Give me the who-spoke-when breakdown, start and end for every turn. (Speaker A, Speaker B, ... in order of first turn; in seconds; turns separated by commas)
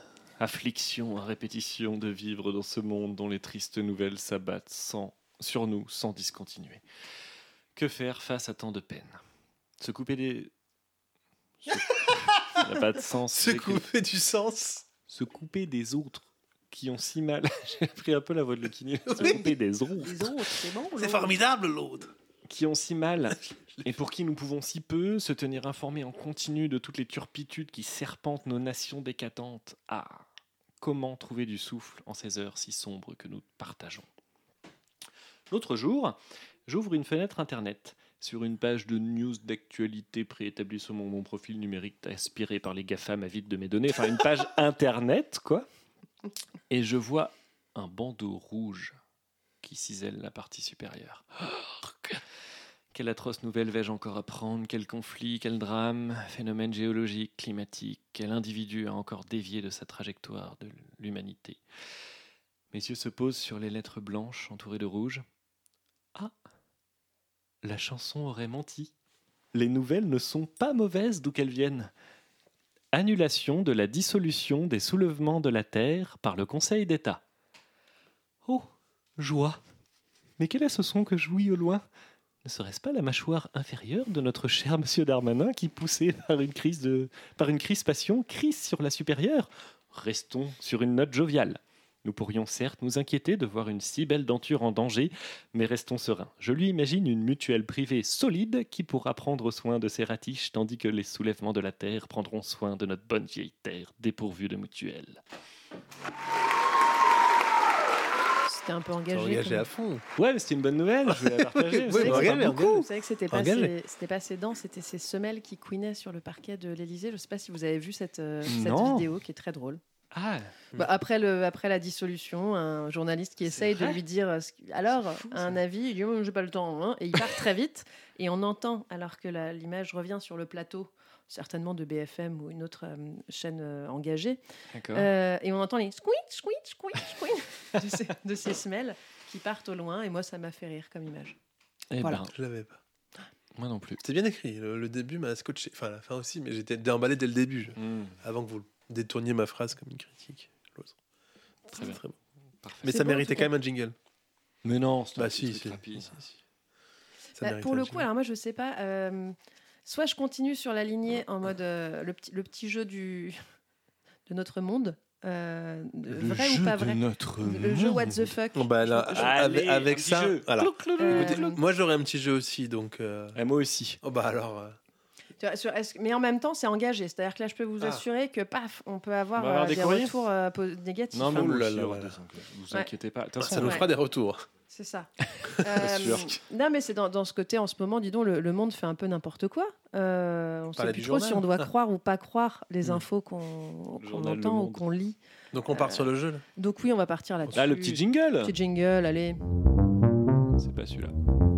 Speaker A: 0.4-6.8, Speaker A: 7.8-9.2, Speaker A: 9.8-10.5, Speaker A: 11.6-13.8, Speaker B: 12.1-12.6, Speaker B: 13.3-14.9, Speaker A: 15.1-20.3, Speaker B: 19.1-19.5, Speaker C: 19.2-19.4, Speaker C: 20.0-21.4, Speaker B: 21.0-22.1, Speaker A: 22.5-30.2, Speaker A: 30.8-34.1, Speaker A: 35.5-45.7, Speaker A: 46.7-48.9, Speaker A: 49.6-52.2, Speaker A: 52.9-61.6, Speaker A: 62.7-65.2, Speaker A: 67.6-68.9, Speaker A: 69.5-71.9, Speaker A: 72.9-77.2, Speaker A: 79.2-79.6, Speaker A: 80.4-81.8, Speaker A: 82.4-105.2, Speaker C: 108.5-109.7, Speaker B: 109.1-110.0, Speaker A: 110.2-112.5, Speaker B: 111.1-113.7, Speaker C: 111.9-119.8, Speaker A: 118.5-119.1, Speaker A: 120.1-120.5, Speaker C: 120.8-134.4, Speaker A: 123.5-124.0, Speaker A: 125.1-125.6, Speaker A: 134.7-135.1, Speaker C: 134.9-141.4, Speaker A: 141.9-142.3, Speaker B: 142.1-142.8, Speaker A: 143.6-144.0, Speaker B: 144.0-150.9, Speaker A: 147.8-148.2, Speaker B: 151.7-152.2, Speaker A: 152.6-152.9, Speaker B: 152.8-153.9, Speaker C: 152.9-153.5, Speaker A: 154.7-156.1, Speaker B: 155.2-156.4, Speaker B: 157.4-158.1, Speaker C: 157.4-159.3, Speaker C: 159.9-163.4, Speaker C: 164.3-169.3, Speaker A: 166.2-168.3, Speaker B: 168.5-173.4, Speaker A: 169.1-171.6, Speaker C: 171.0-171.6, Speaker A: 173.3-174.0, Speaker B: 174.0-174.8, Speaker C: 175.4-181.6, Speaker A: 179.4-180.2, Speaker A: 181.1-183.8, Speaker B: 181.3-182.2, Speaker B: 183.4-184.5, Speaker C: 183.5-183.9, Speaker C: 184.7-185.1, Speaker A: 185.5-186.3, Speaker C: 185.6-195.2, Speaker B: 190.8-191.7, Speaker A: 194.0-194.9, Speaker B: 195.5-196.4, Speaker A: 195.8-196.1, Speaker C: 196.6-199.4, Speaker A: 197.6-198.6, Speaker A: 200.6-201.2